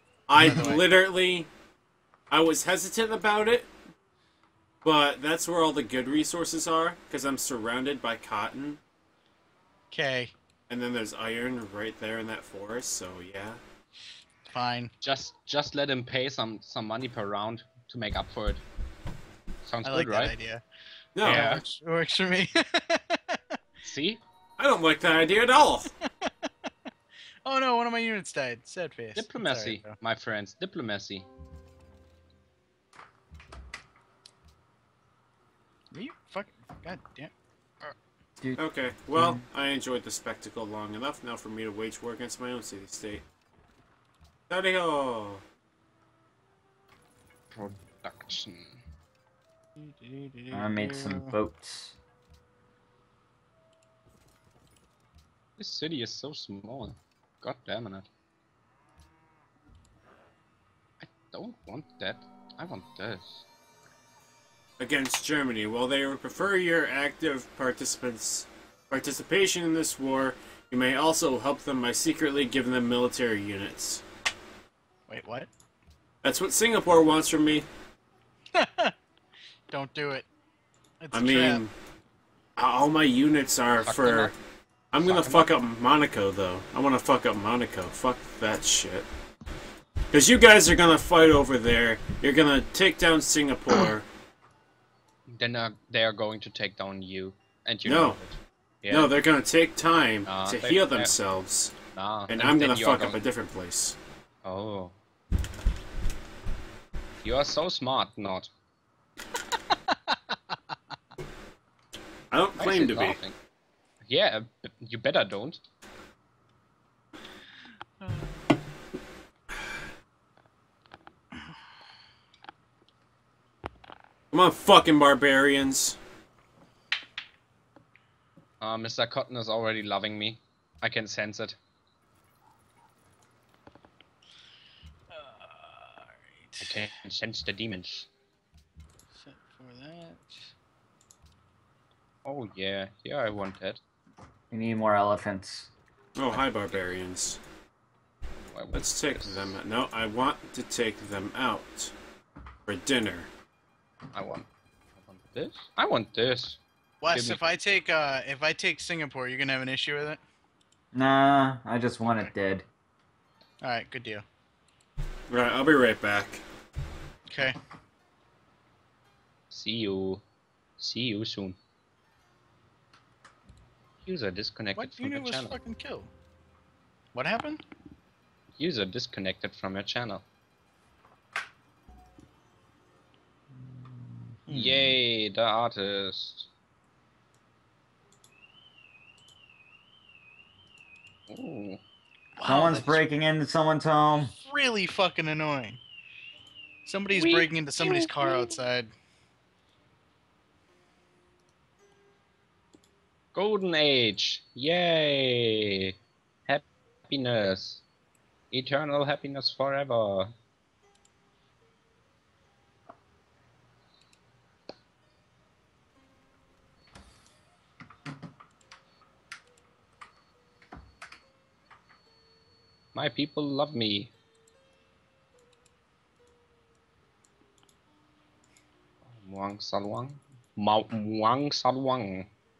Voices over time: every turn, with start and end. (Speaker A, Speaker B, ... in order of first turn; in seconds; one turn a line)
Speaker A: 0.3-1.5
Speaker B: 0.4-0.8
Speaker A: 2.3-3.7
Speaker A: 4.8-8.8
Speaker B: 9.9-10.3
Speaker A: 10.7-13.6
Speaker B: 14.5-14.9
Speaker C: 15.0-18.6
Speaker C: 19.6-20.4
Speaker B: 19.8-20.6
Speaker A: 21.1-21.5
Speaker B: 21.2-23.5
Speaker C: 21.2-21.6
Speaker C: 23.8-24.2
Speaker A: 24.6-25.9
Speaker B: 26.0-26.7
Speaker B: 27.4-29.9
Speaker C: 29.1-31.3
Speaker B: 35.9-37.3
Speaker A: 38.6-43.2
Speaker D: 39.1-39.4
Speaker A: 44.5-45.4
Speaker C: 47.5-48.8
Speaker B: 49.8-51.3
Speaker D: 50.5-52.0
Speaker C: 55.6-58.1
Speaker C: 61.0-63.5
Speaker A: 64.8-74.0
Speaker B: 75.1-75.5
Speaker A: 76.2-77.7
Speaker B: 78.5-78.9
Speaker B: 79.7-80.3
Speaker B: 81.0-81.6
Speaker A: 81.1-81.7
Speaker A: 82.6-84.3
Speaker C: 83.8-84.3
Speaker A: 84.9-89.1
Speaker C: 85.0-85.5
Speaker A: 90.1-94.1
Speaker C: 95.3-99.1
Speaker A: 97.8-98.2
Speaker A: 98.9-101.8
Speaker C: 100.2-101.1
Speaker C: 101.9-103.2
Speaker A: 102.3-104.0
Speaker C: 104.4-104.9
Speaker C: 107.2-108.5
Speaker B: 109.7-110.5
Speaker A: 112.3-113.2
Speaker C: 112.6-113.3
Speaker C: 114.0-115.6
Speaker B: 118.0-118.5
Speaker A: 124.3-126.0
Speaker C: 128.6-131.6
Speaker B: 135.1-136.9
Speaker C: 136.6-138.1
Speaker B: 139.1-140.5
Speaker C: 142.2-143.8
Speaker D: 144.5-145.7
Speaker A: 146.2-147.4
Speaker C: 146.3-146.8
Speaker C: 148.4-149.6
Speaker A: 148.7-151.9
Speaker A: 152.7-153.3
Speaker C: 154.1-156.6
Speaker B: 157.0-160.2
Speaker C: 157.1-157.4
Speaker D: 160.9-162.7
Speaker B: 163.6-164.2
Speaker A: 165.3-166.4
Speaker B: 167.3-167.6
Speaker C: 169.5-170.2
Speaker C: 170.8-171.6
Speaker C: 174.0-175.6
Speaker B: 174.7-176.1
Speaker B: 177.1-177.6
Speaker C: 178.6-180.2
Speaker D: 183.6-184.9
Speaker C: 184.5-186.5
Speaker C: 191.3-191.8
Speaker B: 192.3-193.0
Speaker D: 192.4-194.3
Speaker B: 194.4-195.8
Speaker B: 196.8-198.9
Speaker C: 197.1-198.6
Speaker C: 203.3-205.9
Speaker C: 206.4-207.8
Speaker C: 208.5-210.3
Speaker C: 222.9-224.1
Speaker C: 229.0-232.3